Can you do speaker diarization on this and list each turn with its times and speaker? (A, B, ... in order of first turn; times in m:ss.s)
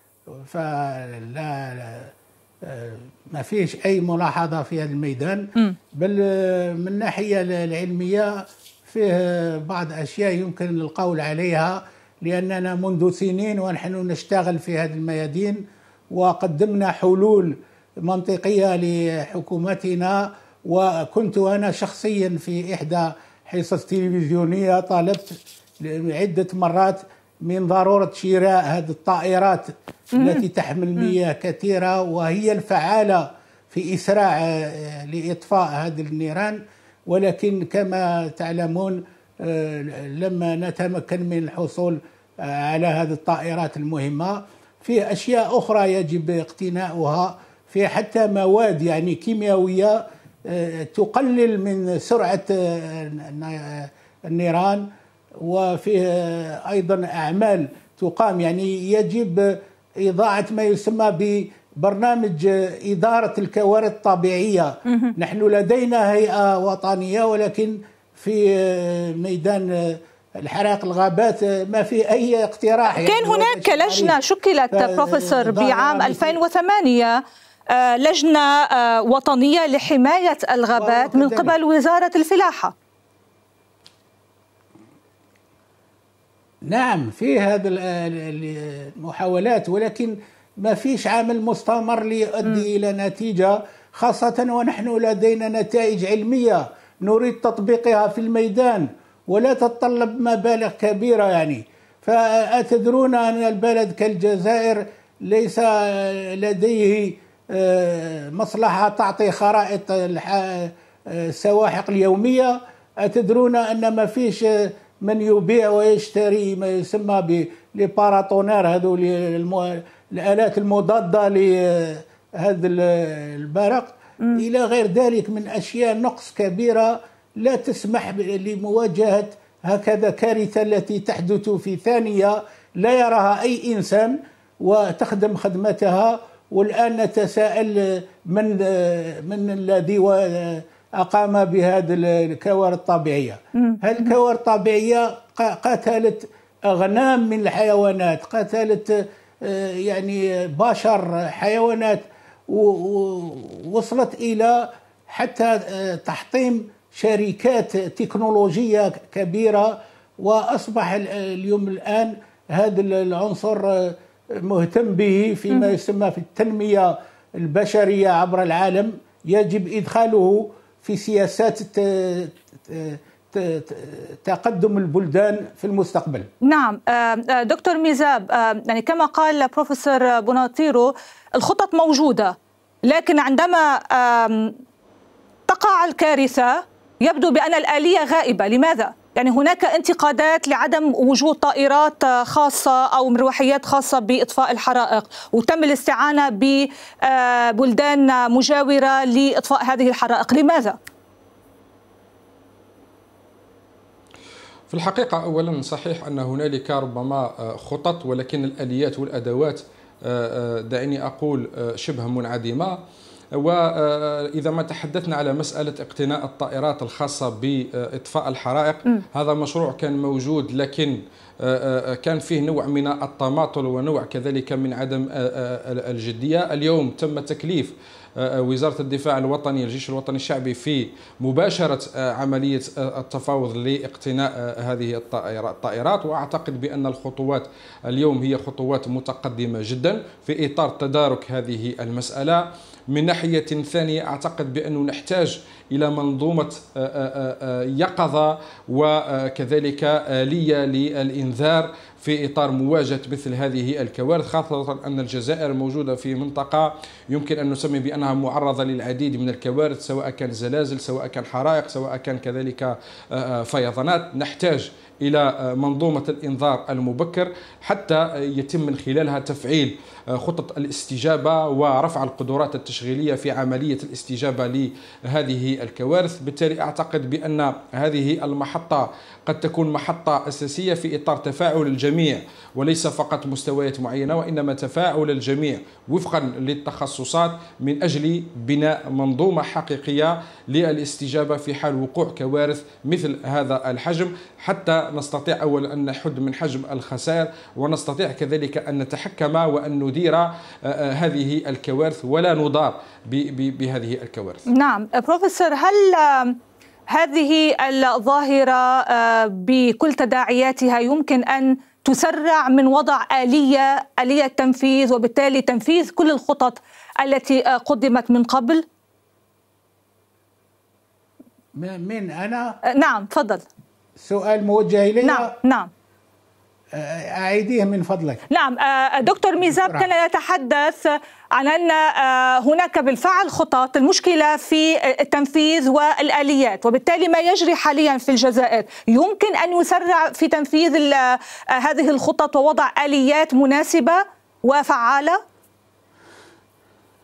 0:00.3-1:14.2 A
0:30.1-0:30.4 B
1:04.9-1:05.1 B
1:12.9-1:22.7 B
1:14.7-1:16.4 A
1:20.7-1:21.6 A
1:26.6-2:56.3 A
2:23.5-2:24.1 B
2:56.4-3:04.6 B
3:05.5-3:20.8 B
3:24.7-3:32.8 C
3:33.4-5:04.4 C
5:04.5-5:06.4 B
5:06.9-5:18.6 B
5:21.5-5:22.6 A
5:22.7-5:23.5 B
5:24.0-5:25.3 A
5:25.0-5:25.7 B
5:26.7-5:28.2 A
5:28.3-5:45.2 B
5:29.4-5:29.9 A